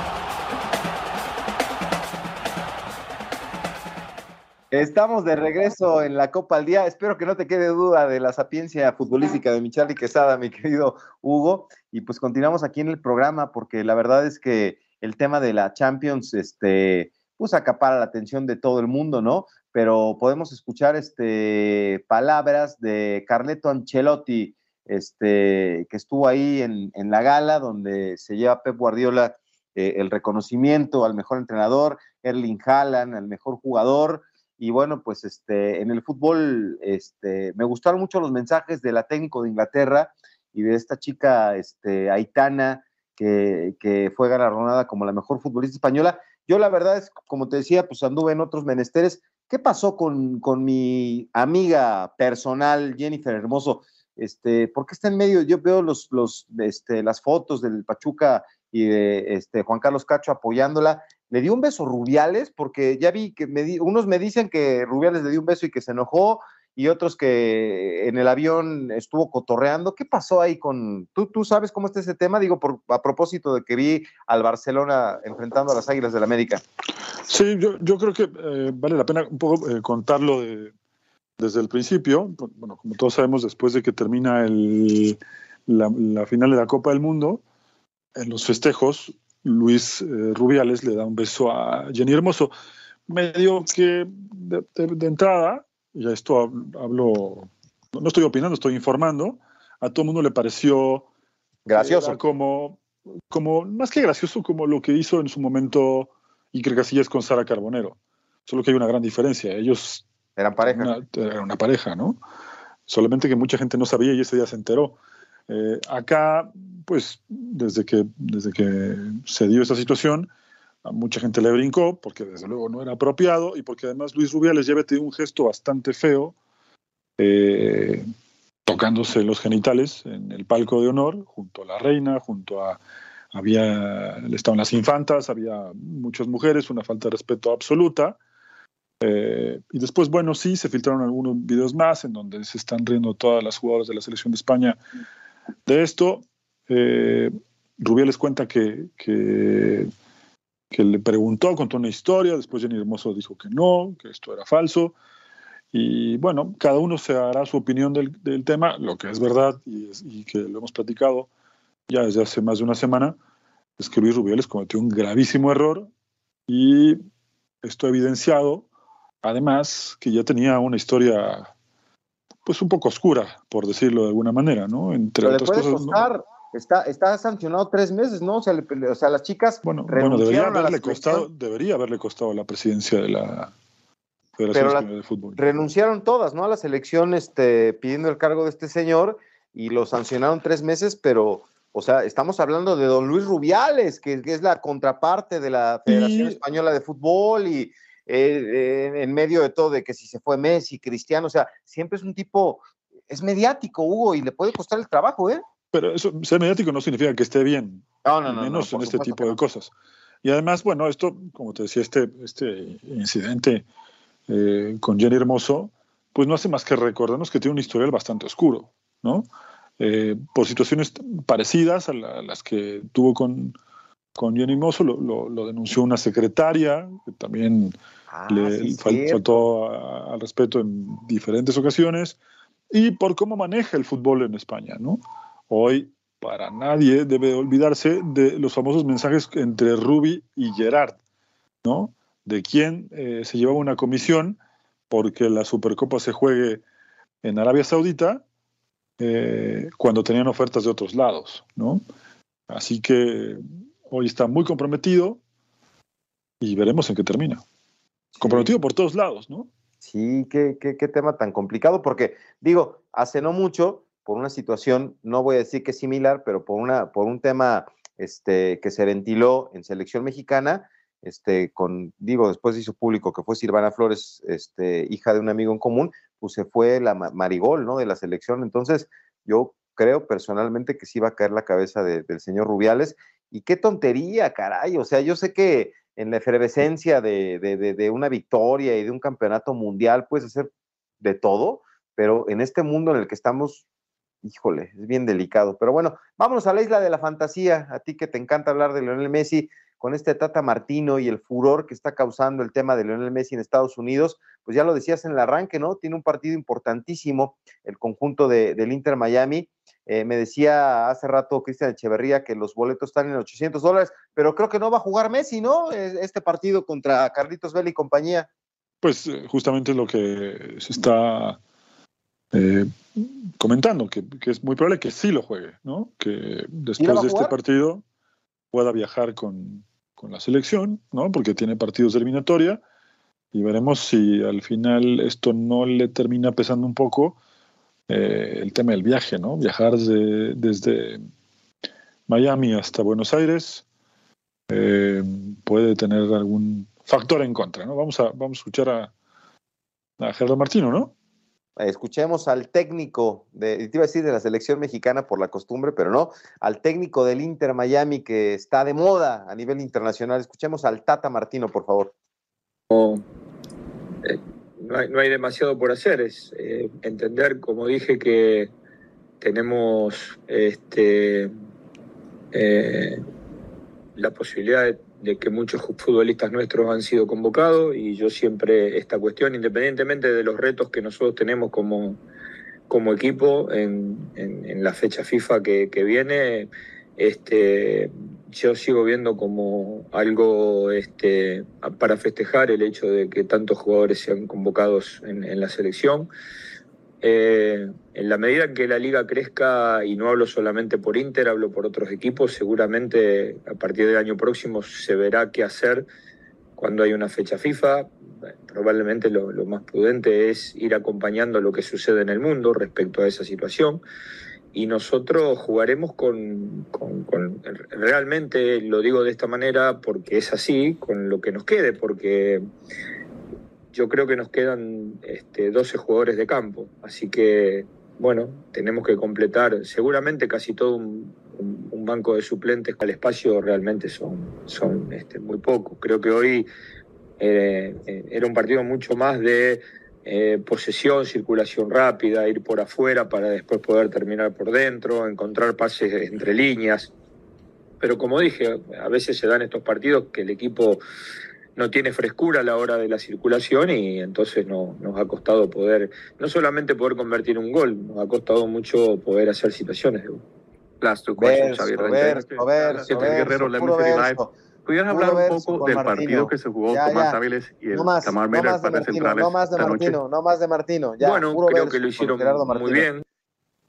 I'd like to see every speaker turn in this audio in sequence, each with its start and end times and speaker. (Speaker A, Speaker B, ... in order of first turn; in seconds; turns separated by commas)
Speaker A: 4.7-76.6, Speaker B: 77.3-80.7, Speaker B: 81.4-87.4, Speaker B: 88.2-92.5, Speaker B: 93.1-101.1, Speaker A: 101.7-102.2, Speaker B: 101.8-110.0, Speaker A: 110.4-110.9, Speaker B: 110.7-112.2, Speaker B: 112.9-115.0, Speaker B: 115.5-120.3, Speaker B: 120.8-126.3, Speaker B: 127.2-128.0, Speaker B: 128.7-132.8, Speaker B: 133.3-138.2, Speaker B: 139.0-144.8, Speaker B: 145.7-149.9, Speaker B: 150.7-154.9, Speaker B: 155.7-161.3, Speaker B: 161.9-163.2, Speaker B: 163.8-165.9, Speaker B: 166.5-167.0, Speaker B: 167.6-168.7, Speaker B: 169.2-171.5, Speaker B: 172.5-176.0, Speaker A: 175.2-181.3, Speaker B: 179.6-183.5, Speaker B: 184.4-185.4, Speaker A: 184.5-205.4, Speaker B: 195.9-196.4, Speaker B: 205.7-209.7, Speaker A: 208.1-209.4, Speaker B: 210.2-213.6, Speaker B: 214.3-219.3, Speaker B: 219.8-223.6, Speaker B: 224.2-227.8, Speaker A: 228.1-229.4, Speaker B: 228.3-232.2, Speaker B: 232.7-241.0, Speaker B: 241.6-244.4, Speaker B: 244.9-246.6, Speaker B: 247.2-248.2, Speaker B: 249.0-251.8, Speaker B: 252.5-255.2, Speaker B: 256.4-257.4, Speaker A: 258.1-258.5, Speaker B: 258.2-259.5, Speaker A: 259.8-293.6, Speaker A: 294.2-318.3, Speaker B: 318.8-321.4, Speaker B: 322.3-327.8, Speaker A: 326.8-327.3, Speaker B: 328.5-332.6, Speaker B: 333.3-337.2, Speaker B: 337.9-341.0, Speaker B: 342.1-343.6, Speaker B: 344.5-348.9, Speaker B: 350.0-350.9, Speaker A: 351.6-361.9, Speaker C: 362.7-363.0, Speaker C: 364.1-368.5, Speaker C: 369.2-371.3, Speaker C: 372.3-373.0, Speaker C: 374.0-382.0, Speaker C: 382.7-396.1, Speaker C: 397.0-405.9, Speaker C: 406.6-407.9, Speaker C: 408.5-413.8, Speaker C: 414.5-422.5, Speaker C: 423.7-436.5, Speaker C: 437.2-446.9, Speaker C: 447.8-450.8, Speaker C: 451.6-460.2, Speaker C: 460.8-462.2, Speaker A: 461.2-464.3, Speaker D: 461.9-470.0, Speaker C: 462.9-463.3, Speaker A: 464.9-467.2, Speaker A: 467.7-472.9, Speaker C: 471.0-473.0